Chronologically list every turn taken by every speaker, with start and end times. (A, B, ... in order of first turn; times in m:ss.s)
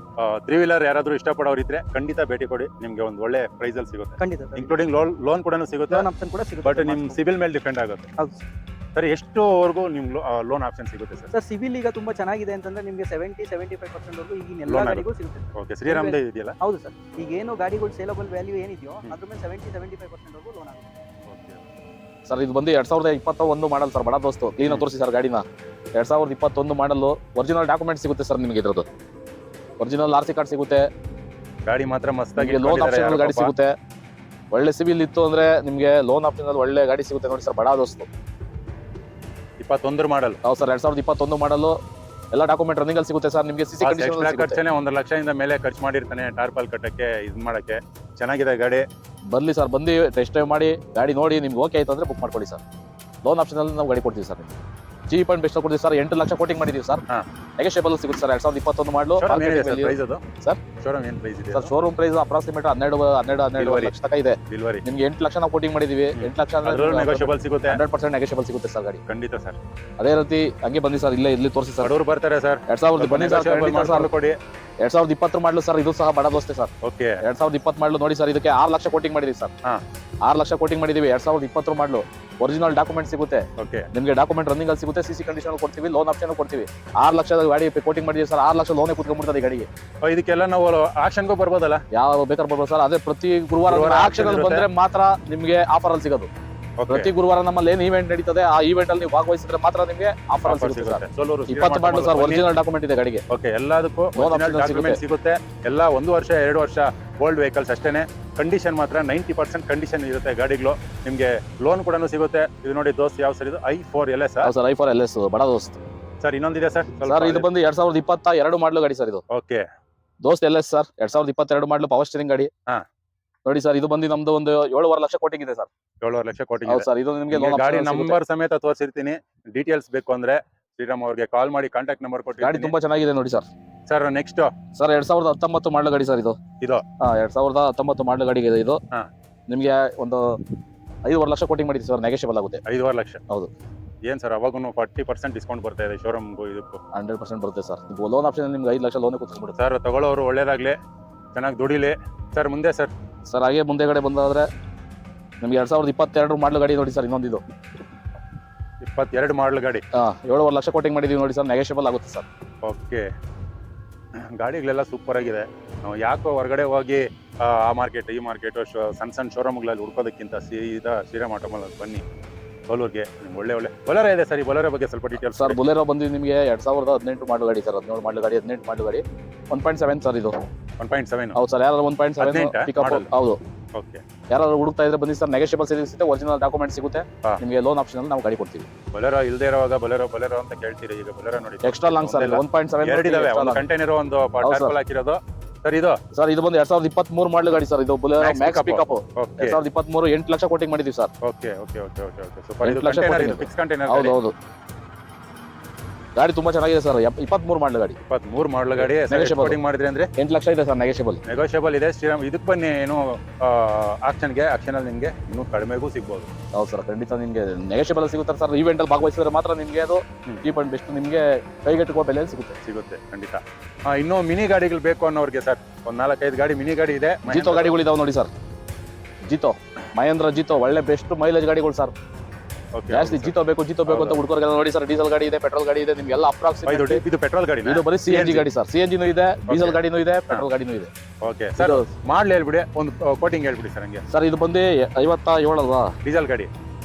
0:00.2-0:06.1 A
0:04.2-0:04.8 B
0:05.9-0:07.2 B
0:06.6-0:08.1 A
0:09.0-0:11.3 A
0:11.3-0:20.9 B
0:14.7-0:15.0 A
0:15.6-0:16.6 A
0:21.3-0:21.7 A
0:22.3-0:28.8 C
0:29.8-0:30.9 C
0:31.7-0:33.5 A
0:32.4-0:33.7 C
0:34.5-0:38.1 C
0:39.6-0:40.4 A
0:40.4-0:41.8 C
0:42.3-0:44.6 C
0:43.8-0:48.9 A
0:49.3-0:52.6 C
0:53.2-0:54.6 C
0:55.1-0:57.0 C
0:57.6-1:00.6 C
0:59.2-1:00.3 A
1:00.8-1:01.7 A
1:01.5-1:09.0 C
1:03.6-1:03.9 A
1:04.5-1:04.8 A
1:06.2-1:07.8 A
1:09.1-1:09.6 A
1:10.0-1:11.9 C
1:11.8-1:14.4 A
1:12.7-1:14.1 C
1:14.8-1:16.7 C
1:16.8-1:17.2 A
1:17.2-1:19.5 C
1:20.2-1:29.7 C
1:23.6-1:23.9 A
1:30.0-1:31.8 A
1:31.9-1:36.3 C
1:33.7-1:34.7 A
1:36.8-1:37.1 A
1:36.9-1:43.2 C
1:40.4-1:42.5 A
1:43.3-1:54.5 A
1:44.2-1:45.0 C
1:54.4-1:55.8 C
1:56.2-1:57.5 A
1:57.0-1:59.2 C
1:59.3-1:59.6 A
2:00.2-2:02.5 C
2:03.4-2:05.7 C
2:06.0-2:12.8 A
2:06.7-2:08.2 C
2:12.4-2:13.5 C
2:13.9-2:14.6 A
2:14.8-2:16.4 C
2:17.0-2:18.8 C
2:19.5-2:20.4 C
2:21.1-2:22.6 C
2:22.7-2:23.2 A
2:24.0-2:26.8 A
2:26.9-2:29.6 C
2:29.6-2:30.8 A
2:31.3-2:32.9 A
2:33.3-2:34.5 C
2:35.4-2:37.4 C
2:38.8-2:39.8 A
2:39.9-2:42.3 C
2:42.6-2:43.1 A
2:44.2-2:52.0 A
2:52.7-2:55.6 A
2:55.3-3:00.4 C
3:00.8-3:01.4 A
3:01.4-3:03.4 C
3:02.2-3:03.1 A
3:03.8-3:04.0 A
3:04.3-3:08.7 C
3:08.9-3:16.0 A
3:11.6-3:13.6 C
3:14.4-3:14.8 C
3:16.1-3:21.1 C
3:18.2-3:19.6 A
3:21.2-3:24.2 A
3:22.6-3:24.3 C
3:26.2-3:28.0 C
3:28.1-3:30.1 A
3:28.8-3:29.6 C
3:30.2-3:31.2 C
3:31.3-3:36.3 A
3:36.5-3:42.6 C
3:42.6-3:47.8 A
3:47.3-3:48.3 C
3:49.3-3:51.9 C
3:52.8-3:53.3 A
3:52.9-3:57.0 C
3:53.9-3:54.2 A
3:56.7-3:58.4 A
3:57.7-4:00.9 C
3:59.5-4:00.5 A
4:01.2-4:04.0 A
4:01.6-4:01.9 C
4:04.1-4:05.9 C
4:06.0-4:06.5 A